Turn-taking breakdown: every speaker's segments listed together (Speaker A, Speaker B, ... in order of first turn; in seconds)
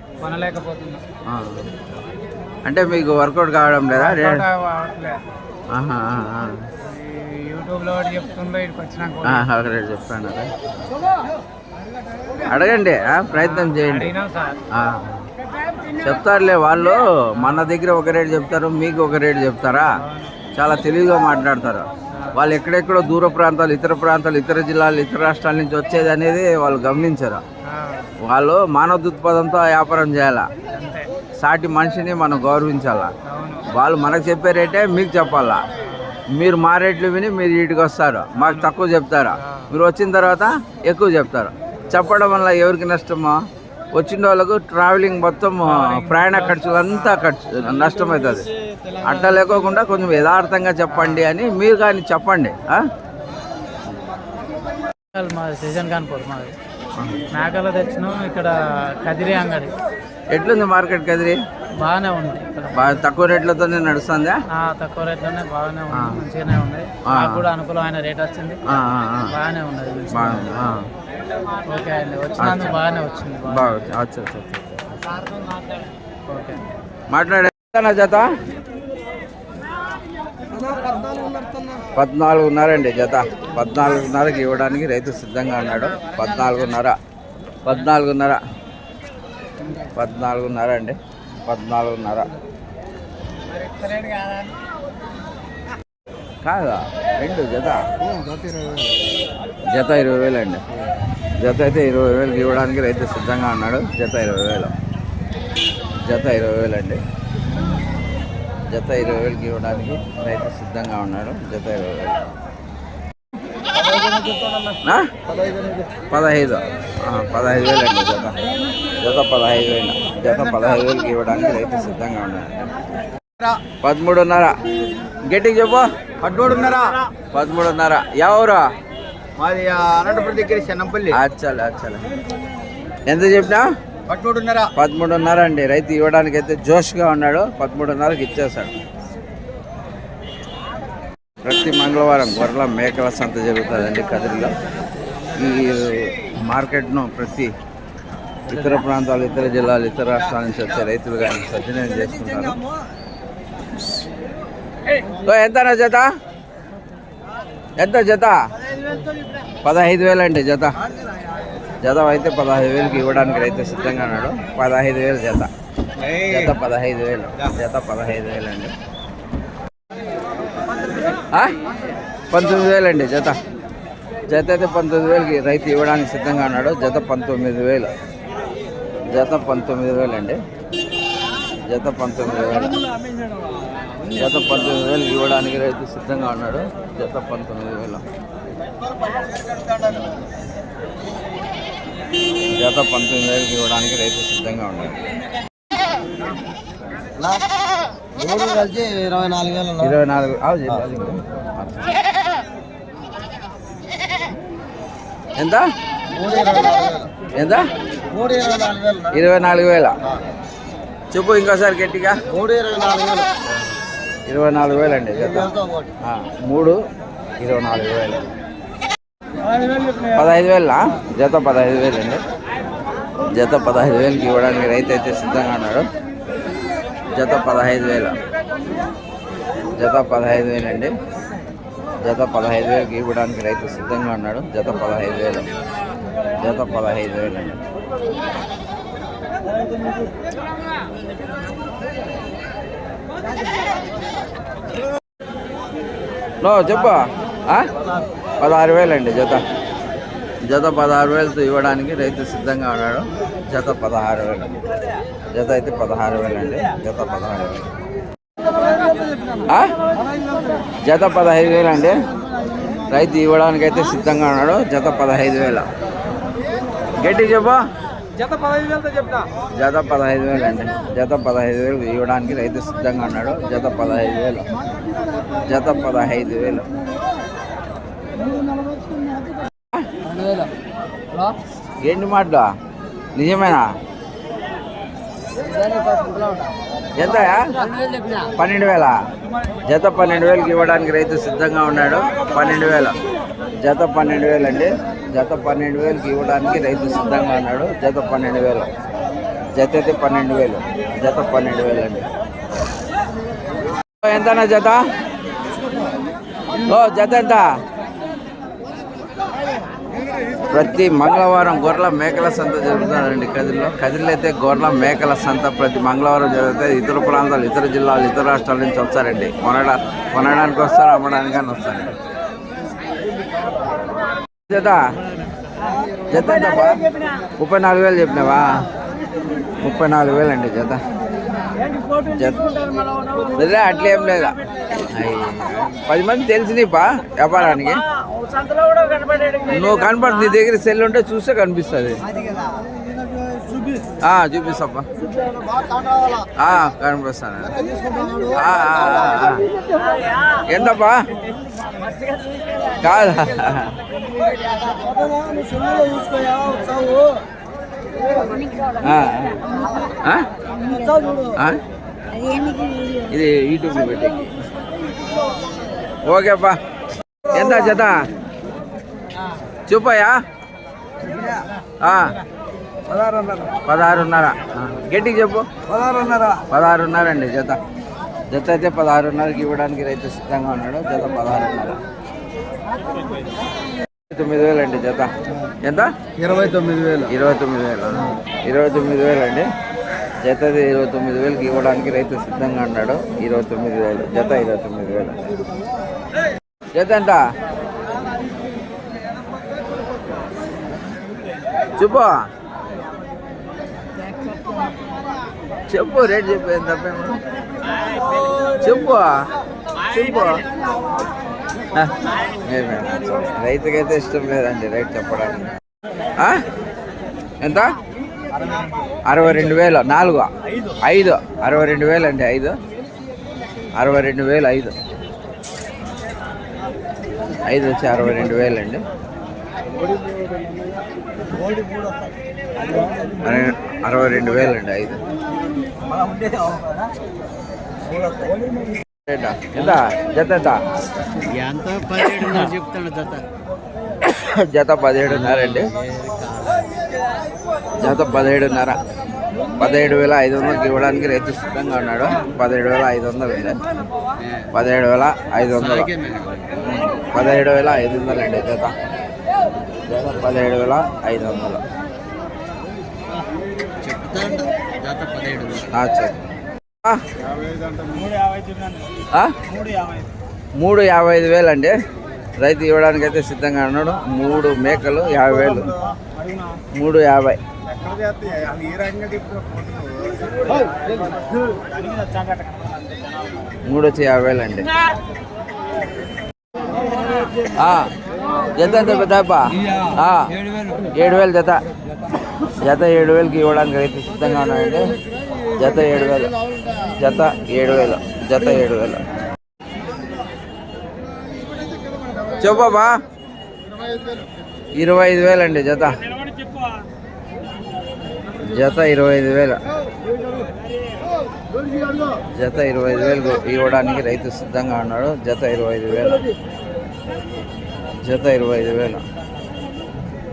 Speaker A: 0.2-1.0, 3.9-5.2, 6.8-9.5, 13.3-14.6, 17.4-17.7, 20.0-20.4, 22.1-22.4, 27.7-28.1, 30.7-31.1, 33.3-33.6, 38.4-38.7, 39.4-39.7, 45.6-47.1, 50.9-51.3, 55.1-56.5, 57.3-59.8, 61.8-63.0, 64.5-68.6, 69.3-70.5, 71.7-73.8, 76.3-76.6, 93.8-94.3
Speaker B: 1.2-1.9, 2.6-4.5, 5.7-6.7, 9.2-10.5, 12.4-14.1, 14.7-15.3, 16.0-19.9, 20.5-27.4, 28.2-30.5, 31.4-33.1, 33.7-35.6, 36.3-43.4, 43.9-48.5, 49.0-52.9, 57.0-57.3, 60.3-61.4, 62.7-64.4, 65.9-66.2, 67.0-67.5, 68.7-69.3, 70.1-70.9, 72.4-72.8, 73.5-74.8, 77.1-78.3, 82.0-87.0, 87.6-88.4, 90.0-92.3, 96.4-97.8, 99.7-100.6, 101.4-104.7, 106.0-107.0, 108.7-112.3, 114.8-115.1, 116.1-118.4, 119.0-122.6, 123.8-124.6, 125.3-125.8, 127.3-128.7, 131.1-132.1, 133.1-133.7, 134.7-138.7, 141.4-144.6, 145.3-147.5, 148.5-152.6, 155.2-156.1, 157.8-158.5, 159.6-160.8, 161.8-165.5, 166.2-168.7, 171.3-171.6, 172.3-173.4, 174.3-177.9, 179.1-180.4, 181.6-182.8, 184.1-188.0, 192.5-195.0, 199.7-202.0, 205.4-205.7, 207.3-207.7, 209.1-210.0, 211.1-212.2, 214.3-216.8, 217.4-218.3, 220.1-222.2, 223.3-225.9, 227.1-228.2, 229.7-230.9, 232.0-235.5, 236.4-237.6, 246.4-247.7, 248.4-249.4, 250.5-254.7, 255.3-257.7, 259.5-259.8, 260.8-262.0, 262.9-265.7, 267.0-267.6, 269.5-274.5, 275.4-276.7, 281.8-282.5, 283.1-283.7, 286.9-287.5, 288.4-289.0, 289.6-293.0, 293.6-298.7, 299.5-302.1, 304.0-304.8, 306.6-307.5, 310.5-322.0, 324.5-324.9, 326.1-326.9, 327.4-328.7, 329.6-330.8, 331.9-332.7, 333.3-334.4, 334.9-337.9, 339.4-342.0, 344.0-344.9, 346.4-347.6, 348.3-349.5, 350.5-351.0, 352.8-353.8, 358.8-359.4, 360.0-360.3, 361.3-361.6, 363.0-364.2, 366.0-366.6, 367.3-368.0, 369.7-370.1, 371.8-372.1, 373.6-375.5, 376.5-377.6, 378.3-381.8, 384.1-385.1, 385.6-385.9, 387.1-389.5, 390.2-395.2, 396.7-397.2, 401.8-402.2, 405.7-407.2, 408.6-409.3, 409.8-410.4, 411.7-415.5, 416.2-416.4, 417.4-417.8, 419.1-420.3, 420.8-422.6, 423.8-424.8, 427.5-428.8, 433.2-435.0, 439.1-440.6, 444.0-445.7, 447.8-448.8, 449.6-453.6, 454.5-455.9, 456.6-458.8, 459.9-461.6, 465.7-466.2, 470.6-471.8, 472.4-475.8, 476.7-477.4, 483.6-484.7, 487.5-487.9, 488.5-490.3, 490.9-491.6, 492.6-495.0, 495.6-496.3, 496.9-499.0, 502.4-502.9, 504.8-506.0, 508.4-509.6, 512.4-516.3, 518.0-519.0
Speaker C: 114.0-114.6, 126.4-127.0, 129.4-131.1, 134.1-134.7, 198.2-199.7, 206.2-207.1, 208.1-209.1, 212.4-213.3, 355.1-356.8, 375.9-376.2, 386.2-387.1, 432.7-433.1, 436.1-436.8, 441.3-443.2, 445.2-446.8, 455.8-456.6, 463.8-465.7, 467.7-468.1, 478.3-480.8